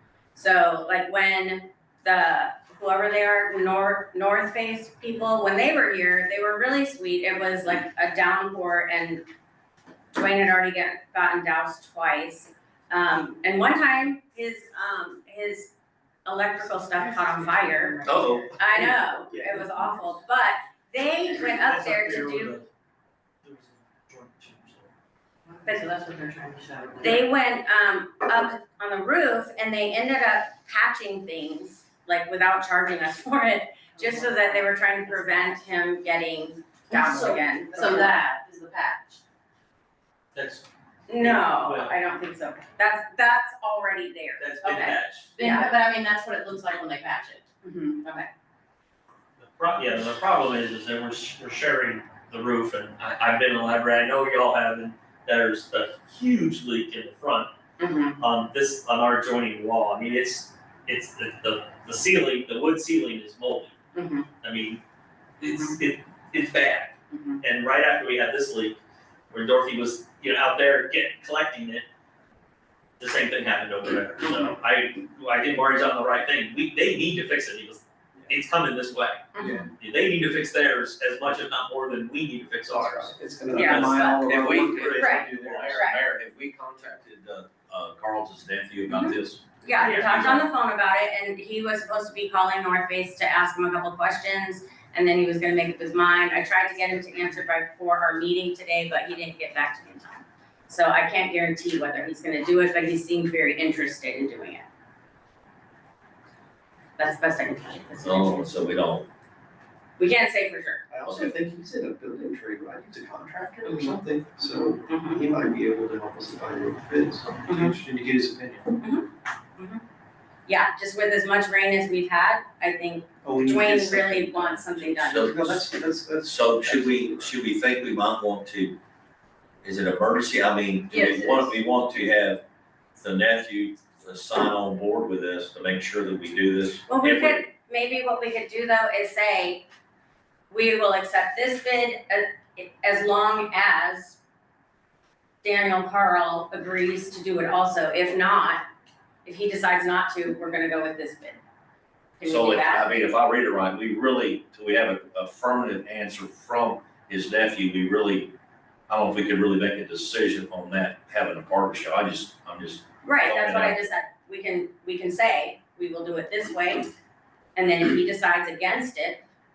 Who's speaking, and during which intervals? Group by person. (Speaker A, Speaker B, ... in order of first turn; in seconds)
Speaker A: 0.3-9.2, 10.1-15.7, 16.2-22.6, 27.0-38.2, 41.1-45.7, 47.6-48.0, 79.4-79.7, 83.5-84.1, 84.9-86.0, 89.6-104.7, 107.0-108.5, 110.0-110.9, 113.6-114.0, 114.9-115.2, 117.5-117.8, 118.8-119.1, 120.5-125.7, 136.9-139.6, 140.5-144.2, 145.4-148.7, 149.2-151.4, 152.2-152.9, 163.0-166.9, 167.6-169.2
Speaker B: 17.4-18.4, 25.5-27.3, 34.0-35.5, 36.9-39.2, 45.3-48.3, 64.0-64.2, 67.1-67.4, 130.9-131.4
Speaker C: 18.1-20.1, 79.4-79.7, 82.7-85.7, 110.9-118.8, 123.2-127.3
Speaker D: 21.4-22.7, 23.4-24.9, 40.3-40.7, 41.2-42.0, 44.4-45.4, 49.4-57.5, 58.2-63.8, 64.4-64.8, 65.4-68.8, 69.3-71.8, 73.0-83.2, 84.7-85.8, 89.8-90.3
Speaker E: 83.7-90.5, 108.0-109.1, 111.1-111.3, 124.9-125.7, 126.2-128.8, 129.6-132.4, 133.0-137.4, 152.2-158.3, 158.9-163.8